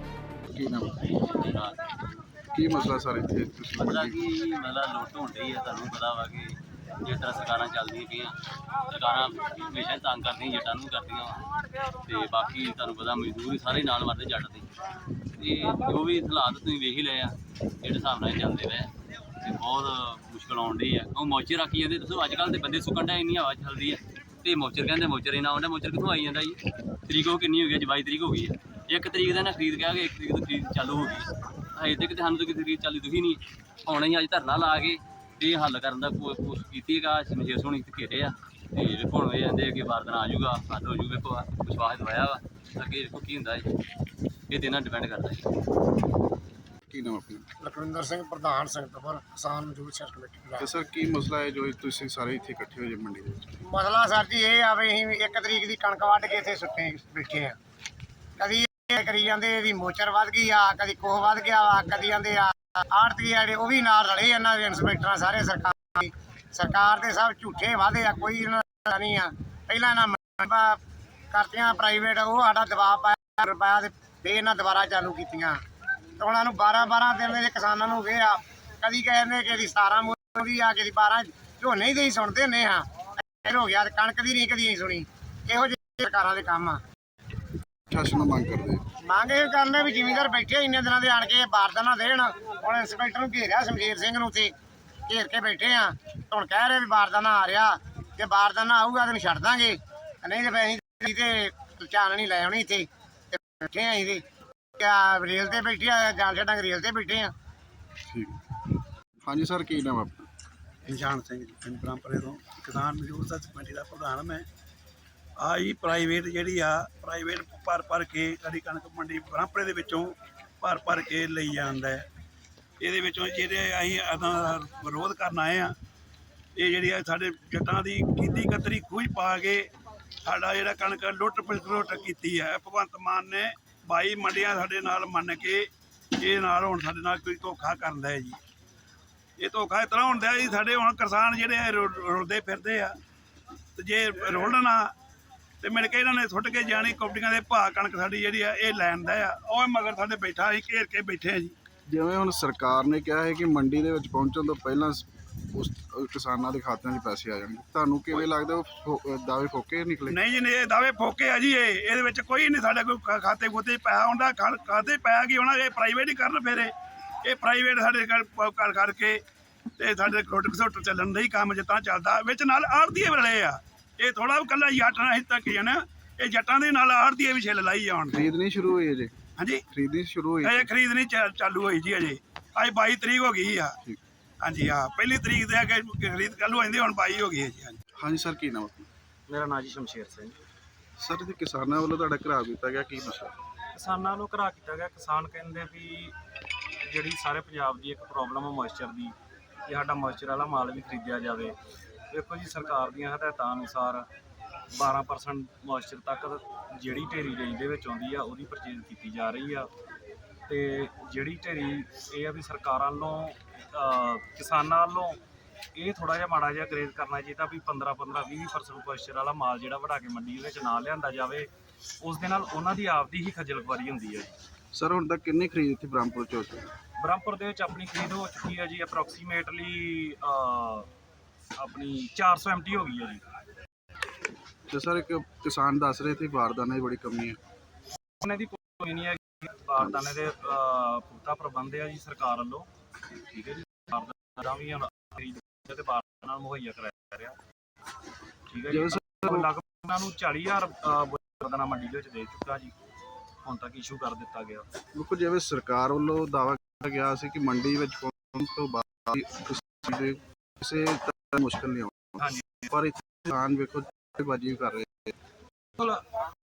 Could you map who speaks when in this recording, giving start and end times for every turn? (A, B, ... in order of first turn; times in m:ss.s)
0:00.5-0:01.2 A
0:01.4-0:01.8 B
0:02.5-0:04.2 A
0:03.8-0:08.4 B
0:08.9-0:11.4 B
0:12.0-0:14.7 B
0:15.4-0:18.9 B
0:19.4-0:43.6 B
0:44.5-0:45.4 B
0:46.9-0:47.5 A
0:47.6-0:50.7 C
0:50.6-0:53.6 A
0:53.6-0:57.6 C
0:58.4-1:10.8 C
1:11.3-1:15.6 C
1:16.2-1:22.8 C
1:23.4-1:26.8 C
1:27.9-1:28.8 A
1:29.0-1:34.5 C
1:35.1-1:44.2 C
1:44.8-1:47.3 C
1:48.1-1:48.4 A
1:49.2-1:50.2 A
1:50.8-1:54.4 D
1:55.4-2:02.0 D
2:02.8-2:05.7 D
2:06.6-2:09.7 D
2:10.2-2:15.7 D
2:16.2-2:18.4 D
2:19.4-2:22.9 D
2:23.8-2:24.9 D
2:25.6-2:31.5 D
2:31.9-2:40.2 A
2:40.1-2:46.7 D
2:47.2-2:49.2 D
2:49.8-2:58.2 D
2:58.1-2:59.1 A
2:59.4-2:59.6 D
2:59.7-3:00.7 A
3:00.4-3:03.8 D
3:04.4-3:07.8 D
3:08.0-3:08.9 A
3:09.3-3:10.3 E
3:11.0-3:13.3 A
3:13.7-3:16.1 E
3:16.8-3:19.1 E
3:19.6-3:21.5 E
3:22.1-3:24.1 E
3:24.7-3:29.7 E
3:30.5-3:35.2 E
3:35.7-3:41.5 E
3:42.0-3:44.3 E
3:44.7-3:46.7 A
3:47.0-3:50.9 E
3:51.6-3:53.2 E
3:54.7-3:57.4 A
3:58.2-4:02.7 E
4:03.3-4:07.4 E
4:08.5-4:12.7 E
4:08.7-4:09.5 A
4:13.4-4:14.7 E
4:14.9-4:25.1 A
4:22.2-4:22.6 E
4:25.8-4:26.0 E